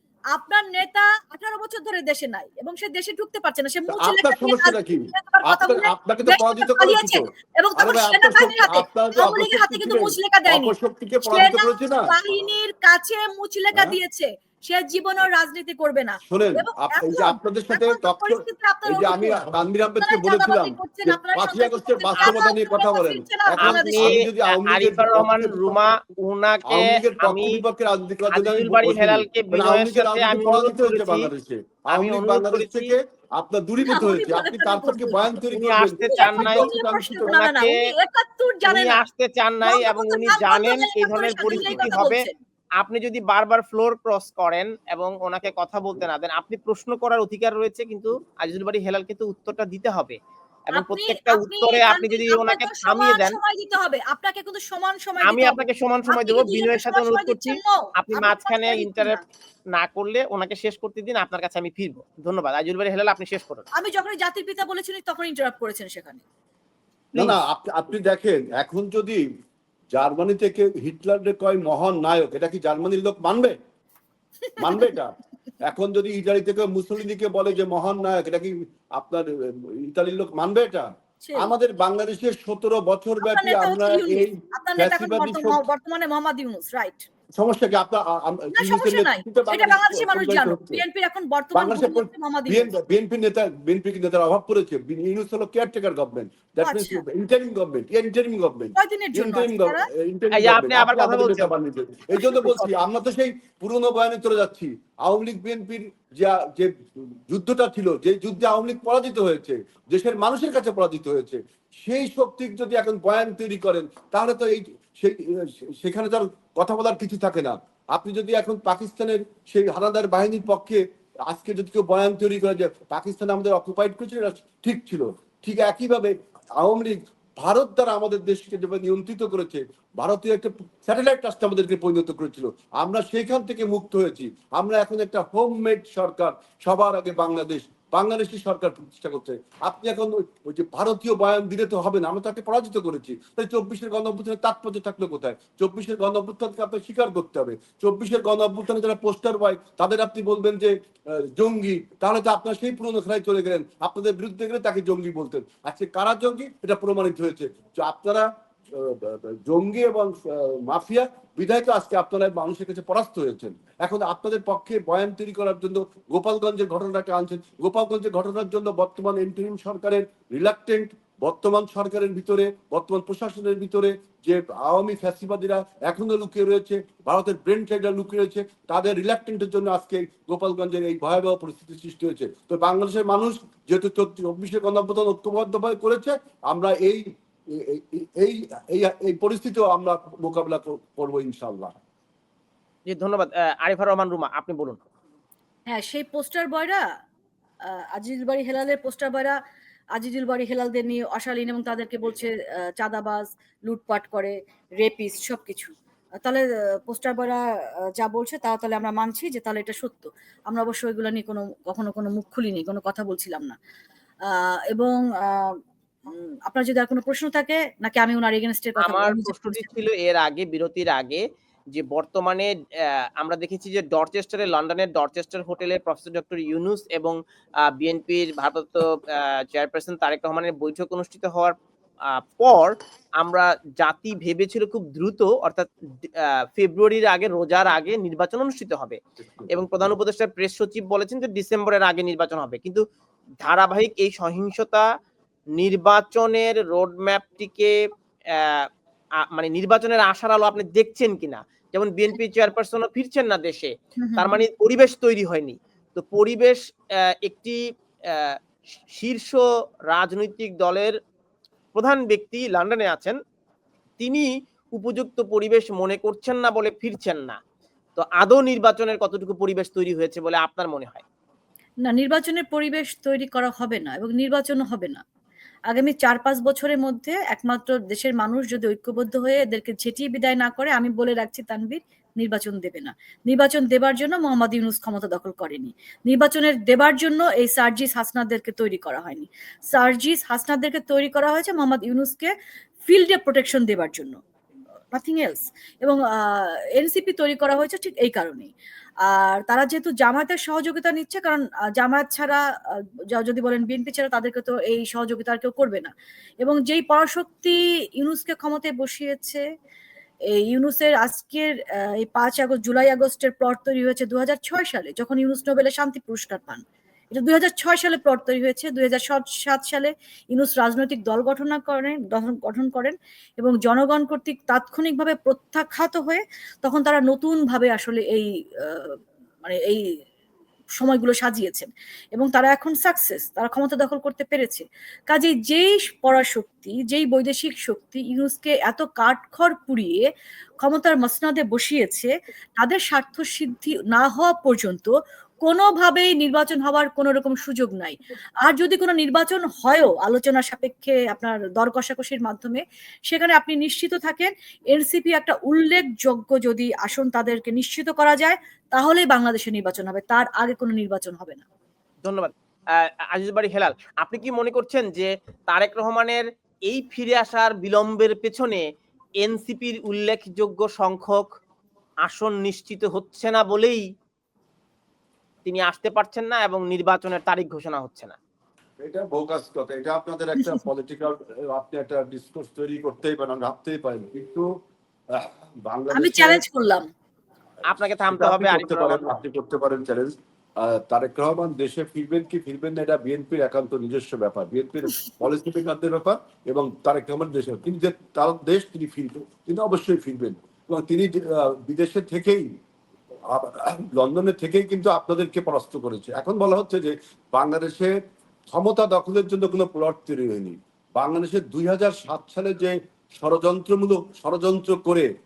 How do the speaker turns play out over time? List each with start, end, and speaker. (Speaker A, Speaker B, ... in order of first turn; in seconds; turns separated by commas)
Speaker A: 0.3-10.7, Speaker B: 3.9-7.2, Speaker B: 7.8-12.1, Speaker A: 11.3-19.4, Speaker B: 16.2-25.8, Speaker A: 20.0-24.2, Speaker C: 23.6-27.6, Speaker B: 26.7-37.4, Speaker C: 28.3-31.3, Speaker C: 31.9-33.0, Speaker A: 33.8-35.5, Speaker C: 35.5-36.7, Speaker A: 36.1-39.1, Speaker C: 37.2-37.7, Speaker C: 38.7-42.2, Speaker A: 39.6-42.4, Speaker B: 41.5-42.0, Speaker C: 42.8-50.2, Speaker C: 50.7-53.4, Speaker A: 50.8-59.3, Speaker C: 55.2-59.2, Speaker C: 59.8-63.6, Speaker A: 63.8-66.2, Speaker B: 67.2-69.2, Speaker B: 69.9-73.5, Speaker A: 74.5-74.9, Speaker B: 74.6-85.6, Speaker A: 81.2-81.5, Speaker A: 83.2-87.1, Speaker B: 87.4-90.8, Speaker A: 88.6-92.7, Speaker B: 91.5-106.7, Speaker A: 96.6-97.0, Speaker A: 98.8-99.8, Speaker C: 100.3-101.5, Speaker C: 102.4-102.7, Speaker B: 107.3-191.7, Speaker C: 192.9-194.8, Speaker A: 195.7-196.8, Speaker A: 197.7-199.4, Speaker A: 200.0-205.7, Speaker A: 206.2-207.4, Speaker A: 208.0-213.6, Speaker A: 214.3-215.6, Speaker A: 216.1-219.7, Speaker C: 218.8-221.2, Speaker C: 221.8-227.2, Speaker C: 227.7-231.6, Speaker C: 232.1-239.0, Speaker B: 239.2-239.5, Speaker C: 239.5-242.8, Speaker C: 243.4-244.9, Speaker C: 245.6-247.8, Speaker C: 248.4-248.7, Speaker C: 249.3-258.4, Speaker A: 254.0-254.4, Speaker C: 259.0-261.0, Speaker C: 261.7-263.2, Speaker C: 264.0-267.4, Speaker C: 268.0-271.0, Speaker A: 271.9-275.0, Speaker A: 275.7-292.3, Speaker A: 292.9-294.2, Speaker A: 294.9-298.5, Speaker A: 299.1-309.4, Speaker A: 310.3-329.8, Speaker A: 330.8-340.0, Speaker A: 340.6-344.9, Speaker A: 345.4-361.4, Speaker C: 362.0-368.6, Speaker C: 369.2-371.3, Speaker C: 372.1-373.9, Speaker C: 375.4-378.2, Speaker B: 378.8-384.5, Speaker B: 385.1-386.4, Speaker A: 385.9-386.9, Speaker C: 387.7-389.1, Speaker B: 387.8-402.5, Speaker B: 403.3-407.9, Speaker B: 408.5-415.1